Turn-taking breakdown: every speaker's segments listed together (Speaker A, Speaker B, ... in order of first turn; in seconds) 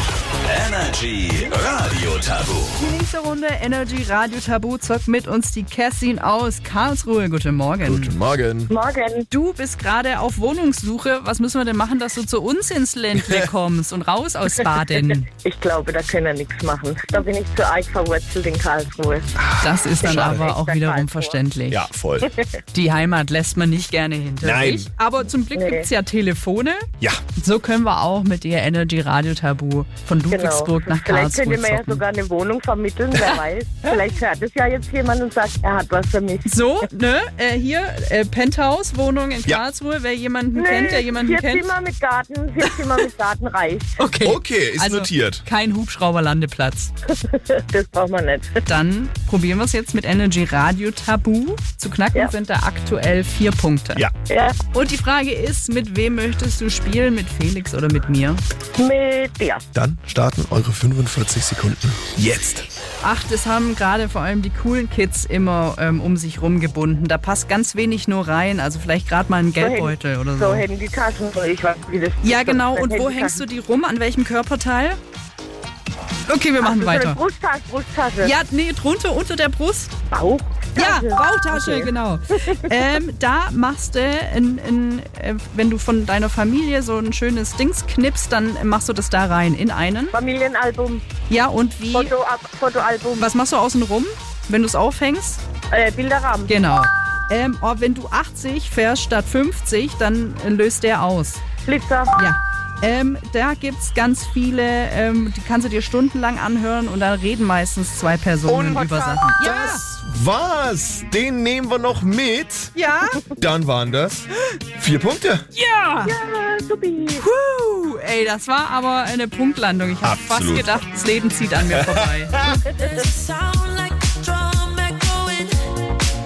Speaker A: 0.5-2.7
Speaker B: 2.7-8.2, 9.3-15.3, 19.6-21.9, 22.7-32.0, 36.5-41.7, 44.0-46.9, 48.6-54.0, 54.7-58.4, 63.0-70.6, 72.2-75.0, 76.3-77.2, 78.2-79.9, 80.8-90.1, 91.3-92.1, 93.2-95.4, 96.5-101.4, 102.1-109.8, 112.7-113.2, 115.5-116.2, 117.2-122.6
Speaker C: 7.8-8.7, 19.4-20.4, 21.7-22.3, 24.4-24.9, 44.2-45.4, 59.7-62.7, 108.5-112.7, 113.2-114.2, 114.8-115.4, 120.0-120.8, 121.6-122.5
Speaker D: 8.7-9.3, 15.3-19.3, 20.0-21.4, 25.5-25.9, 30.3-36.9, 40.5-44.0, 47.1-48.6, 54.3-54.5, 58.8-59.6, 69.6-73.4, 76.6-78.4, 80.1-81.9, 90.1-91.0, 91.9-93.3, 95.7-96.5, 101.6-102.1, 108.5-109.1, 116.0-117.2
Speaker E: 122.4-125.8